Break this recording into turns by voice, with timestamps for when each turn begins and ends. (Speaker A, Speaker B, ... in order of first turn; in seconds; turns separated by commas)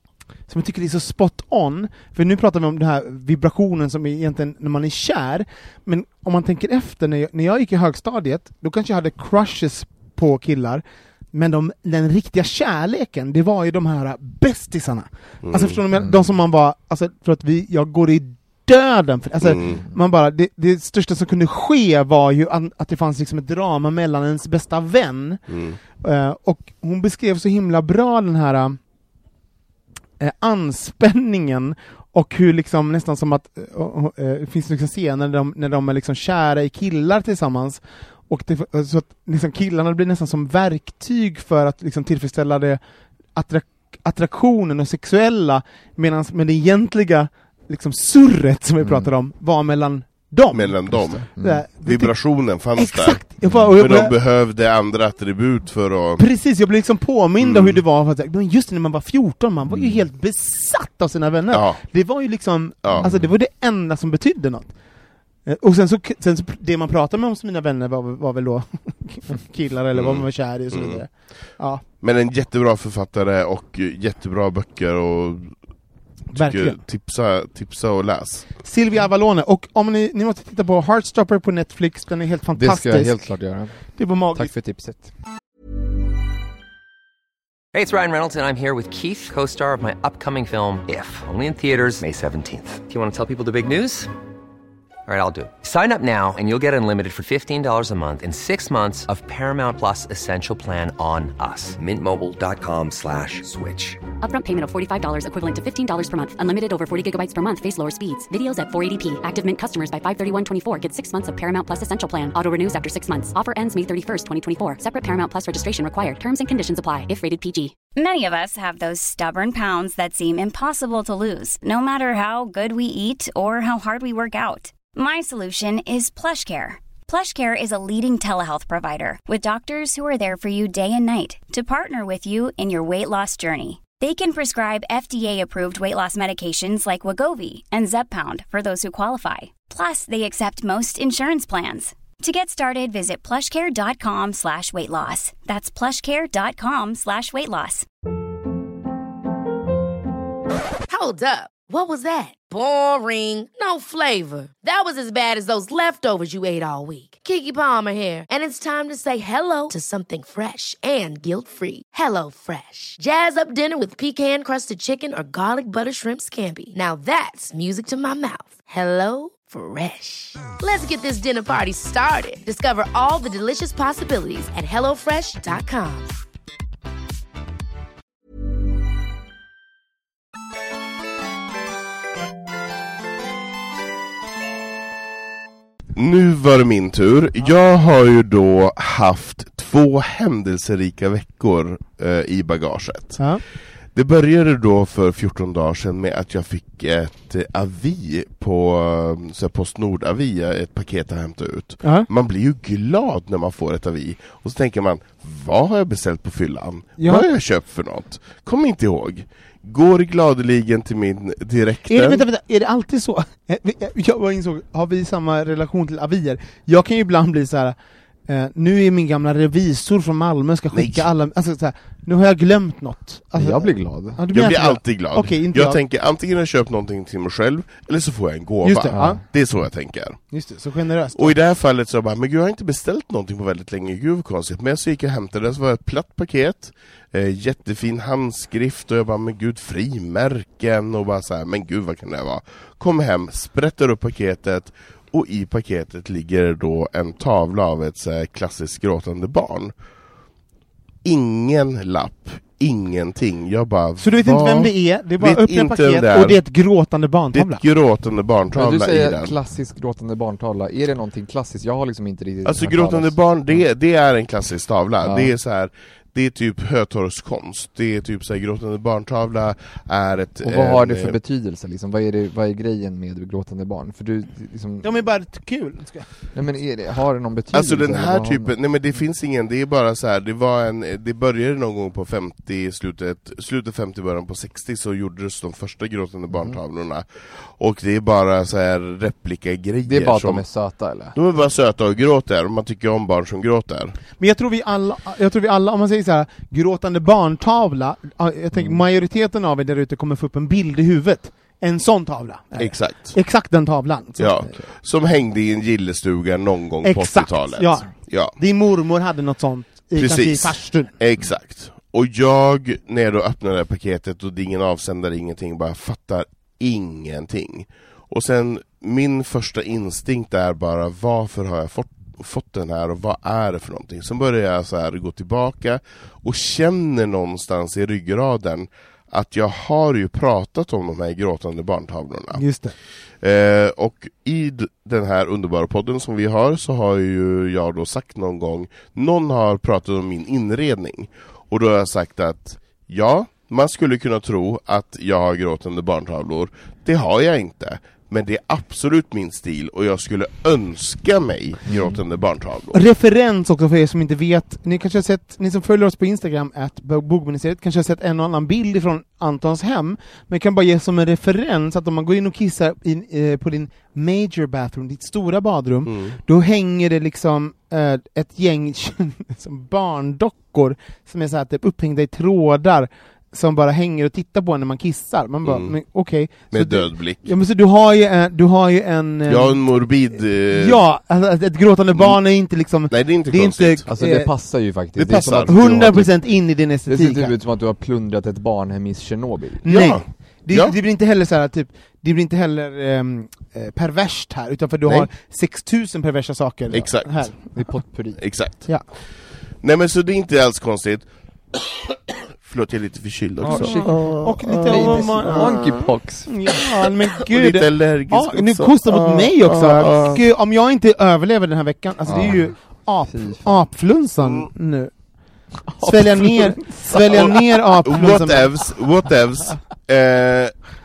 Speaker A: 0.5-25.4, Speaker B: 15.4-15.8, Speaker C: 15.9-16.2, Speaker B: 19.4-19.8, Speaker B: 25.5-25.8, Speaker A: 26.0-28.8, Speaker A: 30.2-42.8, Speaker A: 43.4-52.1, Speaker C: 48.8-49.1, Speaker B: 50.5-56.3, Speaker C: 51.4-51.6, Speaker A: 52.8-54.1, Speaker C: 53.4-53.7, Speaker A: 56.2-64.7, Speaker B: 57.4-57.8, Speaker C: 59.7-60.0, Speaker B: 61.5-61.8, Speaker B: 62.8-63.1, Speaker C: 63.0-63.3, Speaker A: 65.5-71.8, Speaker B: 69.9-71.0, Speaker B: 72.0-75.5, Speaker B: 76.3-78.5, Speaker A: 76.3-76.8, Speaker A: 78.6-83.3, Speaker C: 82.6-85.1, Speaker A: 83.9-84.5, Speaker D: 87.7-94.1, Speaker D: 95.1-104.0, Speaker E: 104.2-117.8, Speaker F: 118.0-147.9, Speaker G: 150.9-176.2, Speaker B: 185.9-193.2, Speaker B: 193.9-212.2, Speaker A: 207.0-207.3, Speaker A: 211.9-217.8, Speaker A: 218.3-225.8, Speaker B: 220.7-221.1, Speaker C: 223.4-224.2, Speaker B: 224.3-230.2, Speaker A: 228.6-229.2, Speaker C: 228.9-229.2, Speaker A: 230.3-231.3, Speaker B: 231.2-249.7, Speaker B: 251.0-256.4, Speaker A: 254.0-257.6, Speaker B: 257.3-259.4, Speaker C: 258.5-263.6, Speaker B: 262.4-271.2, Speaker C: 265.0-265.3, Speaker C: 270.4-274.9, Speaker A: 274.8-276.1, Speaker C: 276.4-278.5, Speaker B: 277.5-290.4, Speaker C: 289.9-291.2, Speaker B: 291.1-294.0, Speaker A: 294.2-304.4, Speaker C: 298.5-298.8, Speaker B: 302.6-303.2, Speaker B: 304.2-308.4, Speaker A: 306.8-310.9, Speaker B: 310.0-332.4, Speaker A: 332.4-332.8, Speaker B: 333.2-352.8, Speaker C: 351.7-352.0, Speaker A: 352.7-379.6, Speaker B: 365.9-366.2, Speaker B: 375.4-375.8, Speaker B: 376.5-377.3, Speaker B: 379.3-380.8, Speaker A: 380.5-384.3, Speaker B: 381.9-382.2, Speaker B: 382.9-383.9, Speaker C: 383.9-386.1, Speaker B: 385.0-385.9, Speaker A: 385.4-387.3, Speaker C: 386.9-389.7, Speaker B: 389.6-390.8, Speaker A: 389.6-397.4, Speaker B: 396.7-397.3, Speaker C: 397.6-398.2, Speaker B: 398.2-398.7, Speaker B: 399.6-405.9, Speaker C: 403.4-406.3, Speaker A: 403.5-405.7, Speaker A: 406.3-414.9, Speaker B: 406.5-410.2, Speaker C: 412.1-412.5, Speaker C: 413.1-413.5, Speaker C: 415.7-417.3, Speaker A: 415.8-418.5, Speaker B: 417.1-420.6